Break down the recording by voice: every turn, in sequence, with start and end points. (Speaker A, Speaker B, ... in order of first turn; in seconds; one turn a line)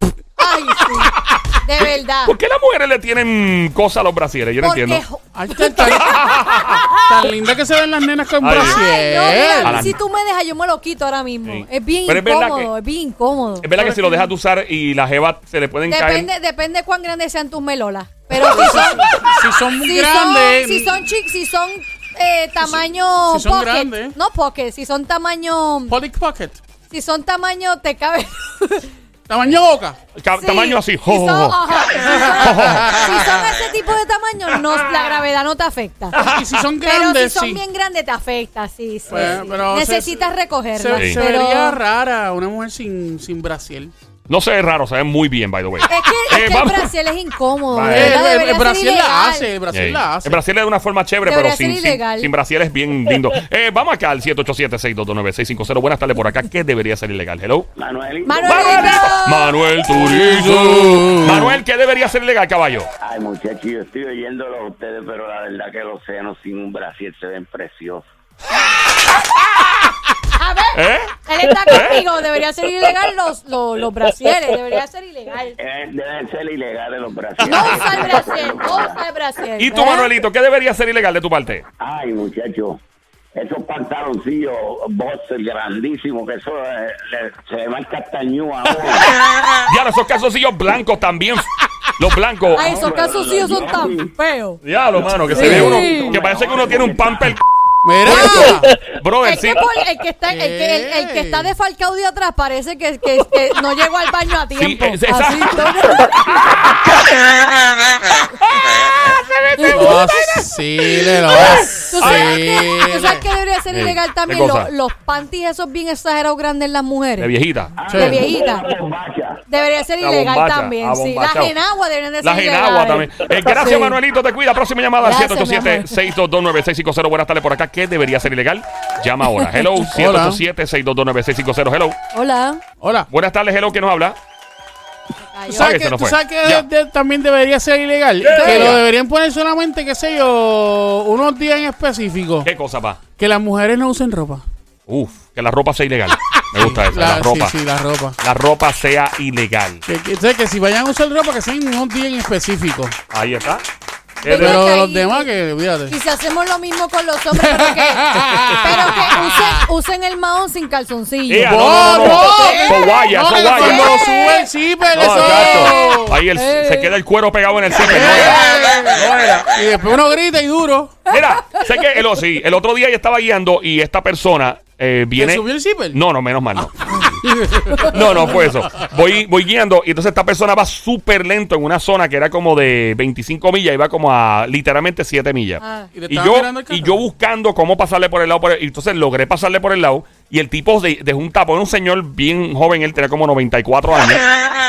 Speaker A: 0.4-1.1
Speaker B: 1.1-5.0
Speaker A: 1.6-2.3
Speaker A: 4.6-6.7
Speaker C: 5.3-9.9
Speaker B: 6.0-6.8
Speaker B: 8.4-8.8
Speaker A: 8.5-13.7
Speaker B: 9.6-10.0
Speaker B: 11.4-12.7
Speaker B: 13.6-16.3
Speaker C: 13.7-14.3
Speaker A: 15.9-26.0
Speaker C: 18.3-21.0
Speaker C: 22.6-24.1
Speaker C: 25.9-26.6
Speaker A: 26.9-28.9
Speaker C: 29.3-30.0
Speaker B: 30.1-31.6
Speaker A: 30.4-36.1
Speaker B: 32.4-33.5
Speaker C: 32.7-33.0
Speaker B: 36.1-36.6
Speaker C: 36.1-37.6
Speaker A: 36.8-41.8
Speaker B: 39.1-39.4
Speaker C: 39.1-43.9
Speaker B: 40.9-41.2
Speaker B: 44.3-46.9
Speaker A: 45.9-49.5
Speaker B: 47.7-48.2
Speaker C: 47.9-50.4
Speaker B: 49.7-57.7
Speaker A: 51.2-52.3
Speaker D: 57.8-58.9
Speaker A: 58.2-59.5
Speaker B: 58.4-62.9
Speaker C: 59.9-61.6
Speaker D: 63.0-68.0
Speaker B: 68.9-69.9
Speaker A: 70.3-75.5
Speaker B: 70.7-71.1
Speaker B: 71.7-72.0
Speaker D: 75.6-79.0
Speaker A: 77.4-80.1
Speaker B: 79.6-81.6
Speaker D: 81.8-82.8
Speaker D: 83.3-89.1
Speaker B: 89.6-92.8
Speaker D: 92.5-94.1
Speaker A: 92.5-94.6
Speaker B: 94.6-97.4
Speaker D: 95.0-97.4
Speaker A: 95.3-96.2
Speaker C: 95.4-95.9
Speaker C: 97.8-98.7
Speaker B: 98.0-99.7
Speaker A: 98.0-98.5
Speaker A: 99.2-106.1
Speaker C: 100.3-101.5
Speaker B: 104.5-106.9
Speaker B: 108.5-110.4
Speaker A: 109.6-110.0
Speaker C: 109.7-113.2
Speaker B: 111.0-112.5
Speaker A: 111.7-117.3
Speaker B: 113.7-114.7
Speaker B: 117.2-117.9
Speaker D: 117.8-119.4
Speaker C: 117.9-118.2
Speaker A: 117.9-118.7
Speaker A: 119.5-124.0
Speaker B: 120.0-121.5
Speaker B: 122.2-132.0
Speaker A: 125.0-126.0
Speaker C: 129.9-130.4
Speaker A: 132.1-132.6
Speaker C: 132.8-133.1
Speaker B: 133.1-134.2
Speaker A: 135.2-135.7
Speaker C: 135.5-142.5
Speaker B: 135.5-136.7
Speaker B: 138.2-138.8
Speaker A: 138.3-138.8
Speaker B: 142.4-143.0
Speaker C: 143.2-144.4
Speaker B: 144.9-147.5
Speaker C: 146.5-148.2
Speaker B: 148.2-149.8
Speaker C: 149.8-152.9
Speaker B: 153.1-153.6
Speaker B: 154.2-154.7
Speaker A: 154.2-155.3
Speaker C: 154.3-156.0
Speaker A: 155.9-164.4
Speaker C: 157.3-159.7
Speaker B: 158.2-158.7
Speaker B: 161.3-164.1
Speaker C: 161.4-166.2
Speaker B: 164.9-169.5
Speaker A: 165.1-166.9
Speaker C: 167.8-171.0
Speaker B: 171.1-176.7
Speaker C: 175.2-176.0
Speaker C: 177.1-178.2
Speaker A: 177.7-178.1
Speaker B: 177.8-194.2
Speaker A: 185.6-185.9
Speaker C: 185.9-187.0